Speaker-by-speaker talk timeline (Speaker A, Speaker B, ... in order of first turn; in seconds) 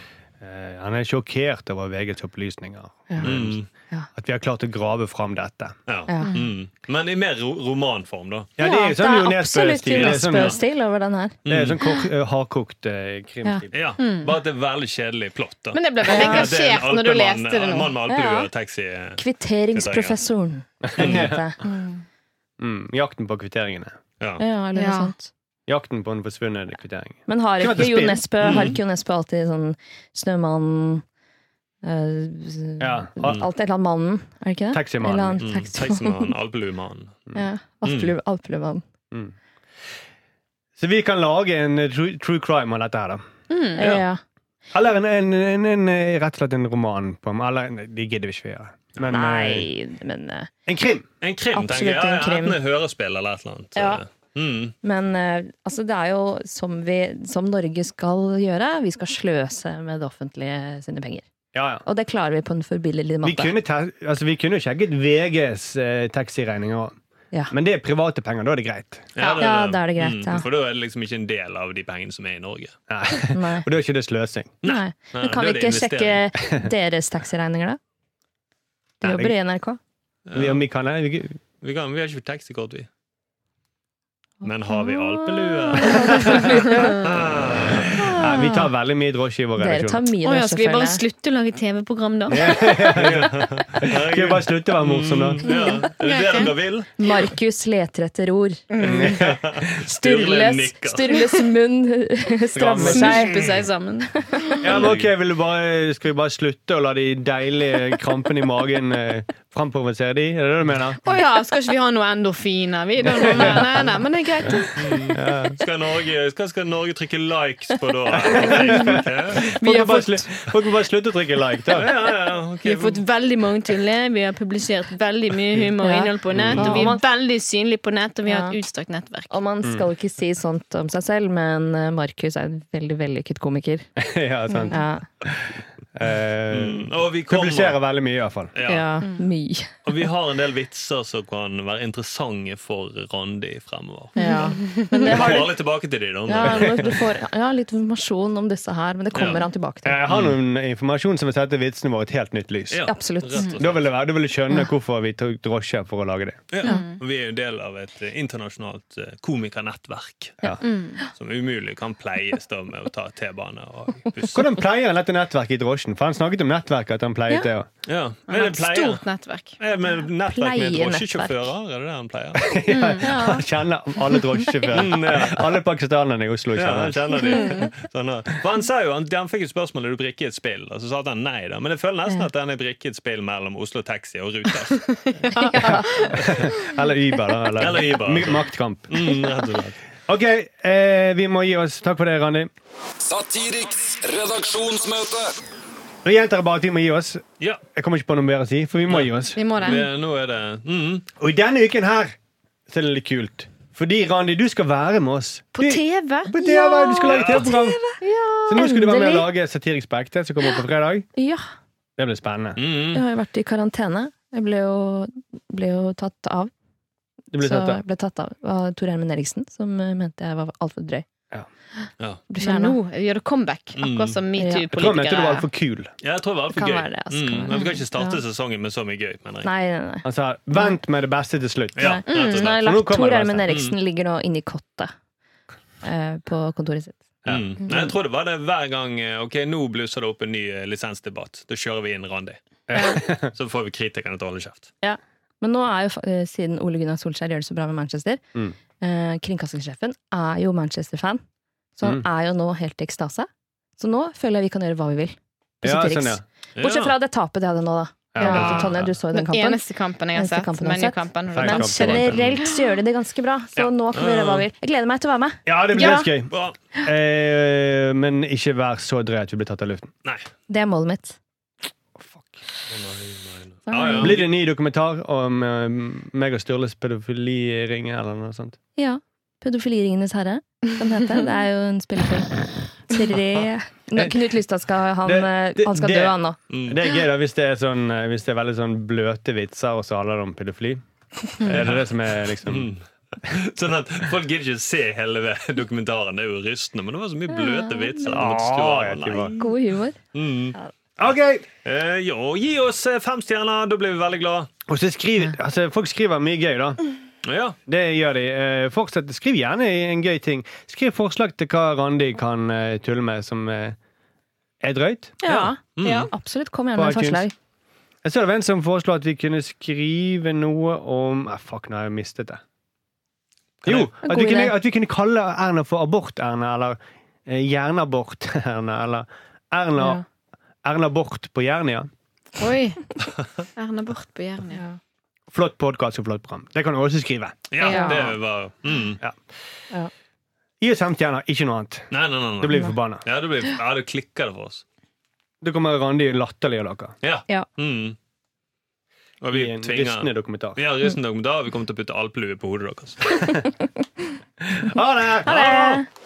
Speaker A: 0.4-3.6, 4.2-5.8, 8.6-10.6, 11.5-13.8, 20.8-21.5, 22.6-23.9, 25.7-28.2, 32.8-33.5, 34.7-35.4, 40.8-43.2, 44.7-49.7, 50.7-51.1, 61.5-61.8, 63.2-67.0, 67.5-69.1, 72.9-74.6, 79.0-79.3, 80.3-81.4, 86.2-86.5, 88.0-90.1, 92.3-95.5, 98.8-99.7, 102.5-103.3, 104.6-111.0, 113.0-113.9, 115.1-115.6, 118.1-121.9, 126.3-126.9, 134.0-138.5, 146.4-147.0, 149.8-152.8, 153.6-156.4, 164.3-167.7, 172.4-177.0, 186.2-188.9, 190.1-192.5, 196.1-199.4, 201.2-202.2, 202.7-207.8, 208.4-211.1, 212.0-212.6, 217.3-217.8, 224.7-225.9, 230.0-233.6, 237.2-237.6, 242.7-243.3, 255.6-256.2, 258.1-258.9, 261.3-262.2, 265.5-269.9, 272.0-272.4, 274.0-278.6, 285.0-290.8, 291.4-292.7, 298.1-299.4, 301.0-301.5, 304.7-306.8, 307.7-313.8, 314.6-315.2, 316.8-317.3, 318.0-322.4, 323.6-330.0, 330.6-331.9, 335.3-337.5, 340.6-343.0, 345.4-346.9, 349.3-350.6, 354.4-355.8
Speaker B: 3.2-3.7, 5.9-8.5, 10.0-10.6, 11.4-11.8, 13.7-20.2, 21.0-21.2, 28.4-28.8, 35.4-37.2, 37.9-38.1, 51.2-54.7, 69.2-72.8, 74.6-76.2, 80.3-80.6, 81.6-82.9, 84.4-88.1, 92.9-96.9, 98.8-101.2, 104.7-105.1, 113.4-113.8, 114.8-119.5, 121.7-123.0, 136.5-137.8, 138.5-138.9, 139.8-144.2, 144.7-147.0, 149.1-149.4, 150.1-150.4, 152.7-153.8, 156.5-160.4, 161.1-164.5, 167.9-169.0, 169.6-172.5, 174.7-175.5, 176.6-185.1, 185.9-186.5, 187.6-189.8, 198.9-201.1, 207.1-207.5, 212.6-213.0, 223.8-224.2, 226.0-229.5, 231.8-232.6, 233.5-233.8, 237.3-242.4, 243.0-244.7, 256.6-256.9, 258.3-258.9, 263.9-264.5, 266.3-266.6, 272.7-274.2, 286.5-286.8, 291.4-299.6, 300.1-301.1, 301.6-304.5, 307.2-307.6, 315.2-316.1, 323.6-323.9, 337.5-339.0, 341.9-344.6, 347.0-348.0, 349.2-353.4
Speaker C: 6.1-6.4, 8.6-11.4, 16.1-16.5, 18.1-18.5, 19.2-21.9, 24.4-25.3, 27.3-31.0, 31.8-36.3, 37.4-38.8, 43.8-44.2, 49.1-50.5, 51.5-52.6, 53.8-54.0, 54.8-61.2, 61.9-63.6, 69.4-70.5, 73.3-73.7, 74.6-77.8, 79.0-79.8, 84.5-87.0, 88.0-88.7, 89.6-91.0, 97.0-98.7, 99.8-103.6, 119.6-120.0, 125.8-127.0, 128.3-128.6, 129.3-133.9, 134.7-135.1, 138.7-139.8, 144.2-145.6, 146.3-150.0, 152.8-153.5, 156.6-156.9, 170.2-171.5, 173.0-173.4, 185.3-186.2, 206.4-207.0, 207.8-209.3, 211.2-211.4, 212.9-216.5, 217.4-221.1, 222.3-222.8, 224.4-224.7, 226.5-228.2, 229.4-230.7, 231.8-234.9, 235.8-237.0, 237.7-237.9, 244.8-248.2, 248.8-251.2, 251.8-259.6, 260.1-265.4, 270.5-271.2, 273.7-274.2, 278.8-282.4, 282.9-286.4, 297.3-298.2, 299.4-300.0, 315.2-315.6, 316.1-317.3, 324.0-324.5, 329.8-330.0, 337.6-338.1, 355.2-355.9
Speaker D: 14.0-14.3, 15.7-17.9, 24.8-25.1, 43.5-44.0, 69.2-69.5, 86.0-86.9, 90.2-93.0, 95.4-96.5, 98.7-99.2, 102.8-104.5, 111.0-115.2, 119.5-120.2, 122.6-129.3, 144.2-145.2, 156.6-157.0, 160.6-161.0, 168.3-169.6, 172.7-173.2, 177.3-177.6, 185.2-185.9, 199.3-199.8, 205.6-208.6, 222.4-225.5, 258.2-258.5, 259.1-262.8, 265.8-266.1, 315.8-316.1, 332.4-332.9, 333.6-334.6, 337.6-338.1
Speaker E: 193.0-195.4